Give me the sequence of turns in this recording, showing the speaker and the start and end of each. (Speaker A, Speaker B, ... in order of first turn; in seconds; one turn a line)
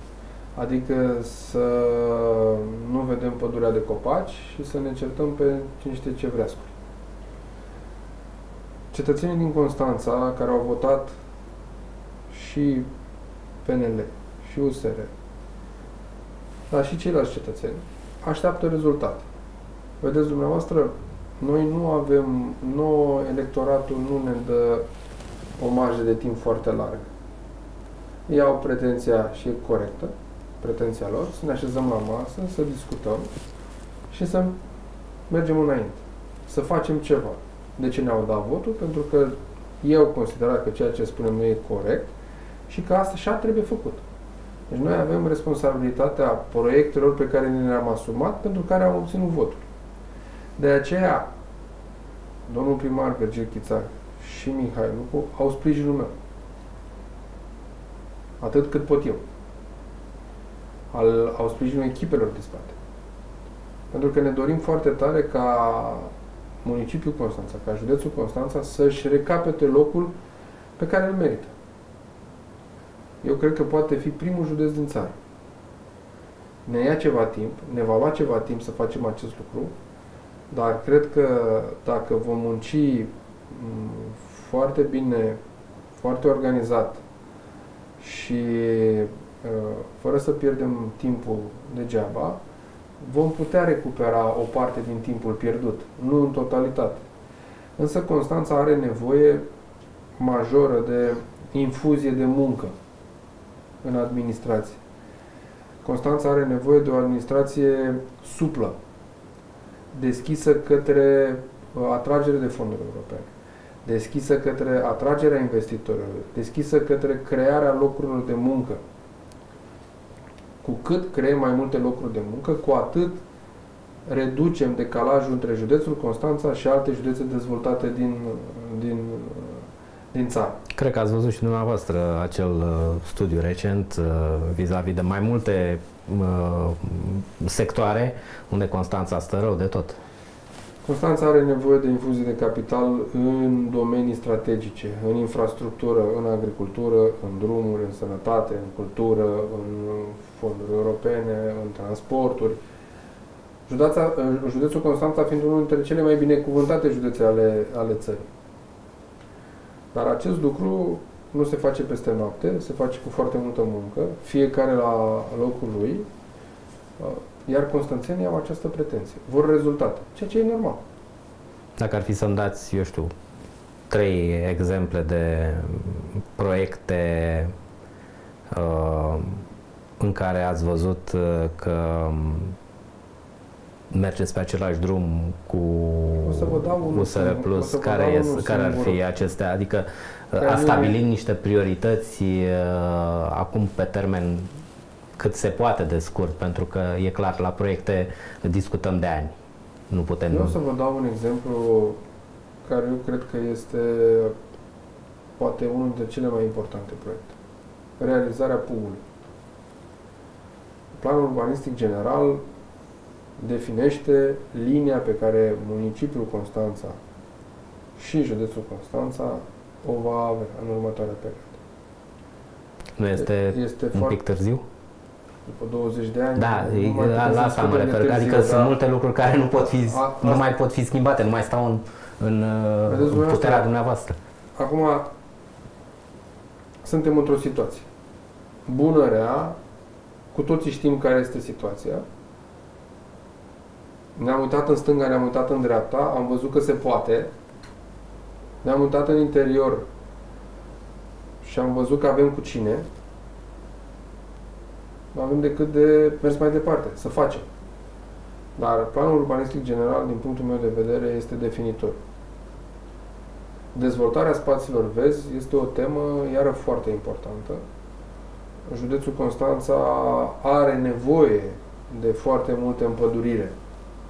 Speaker A: 0.6-6.7
Speaker A: 8.9-11.1
Speaker A: 12.3-12.9
Speaker A: 13.6-15.1
Speaker A: 16.7-19.3
Speaker A: 20.0-24.9
Speaker A: 25.6-27.1
Speaker A: 28.3-33.3
Speaker A: 34.1-34.6
Speaker A: 35.3-42.1
Speaker A: 42.7-44.0
Speaker A: 44.7-49.6
Speaker A: 50.6-51.3
Speaker A: 52.5-56.1
Speaker A: 58.4-59.2
Speaker A: 60.9-62.8
Speaker A: 63.9-66.1
Speaker A: 66.6-70.1
Speaker A: 70.8-71.5
Speaker A: 73.2-75.2
Speaker A: 76.7-79.7
Speaker A: 80.5-85.4
Speaker A: 86.0-87.0
Speaker A: 88.0-92.4
Speaker A: 93.0-97.0
Speaker A: 97.8-99.5
Speaker A: 100.2-102.7
Speaker A: 103.8-104.8
Speaker A: 105.8-108.8
Speaker A: 109.9-113.3
Speaker A: 113.8-118.8
Speaker A: 120.6-123.2
Speaker A: 124.1-130.6
Speaker B: 130.7-140.0
Speaker A: 140.8-152.6
Speaker A: 153.7-158.3
Speaker A: 159.9-166.1
Speaker A: 167.0-170.8
Speaker B: 171.8-173.1
Speaker B: 173.9-177.5
Speaker B: 178.5-179.4
Speaker B: 180.0-182.6
Speaker B: 183.9-194.5
Speaker A: 186.2-189.0
Speaker A: 190.4-191.0
Speaker B: 195.2-199.4
Speaker B: 199.9-200.6
Speaker A: 200.3-202.0
Speaker A: 202.7-204.3
Speaker A: 205.4-207.3
Speaker A: 208.0-209.0
Speaker A: 210.9-212.4
Speaker A: 213.4-217.0
Speaker A: 218.0-221.6
Speaker B: 223.0-224.6
Speaker A: 223.2-224.2
Speaker A: 225.5-228.7
Speaker B: 226.4-234.2
Speaker A: 229.6-230.6
Speaker A: 232.9-233.7
Speaker A: 234.6-235.1
Speaker A: 236.8-237.9
Speaker A: 238.7-239.6
Speaker A: 240.3-242.1
Speaker A: 244.2-247.3
Speaker A: 248.6-249.9
Speaker A: 251.4-252.9
Speaker A: 255.1-257.5
Speaker A: 258.6-262.0
Speaker A: 263.7-267.6
Speaker A: 268.7-273.6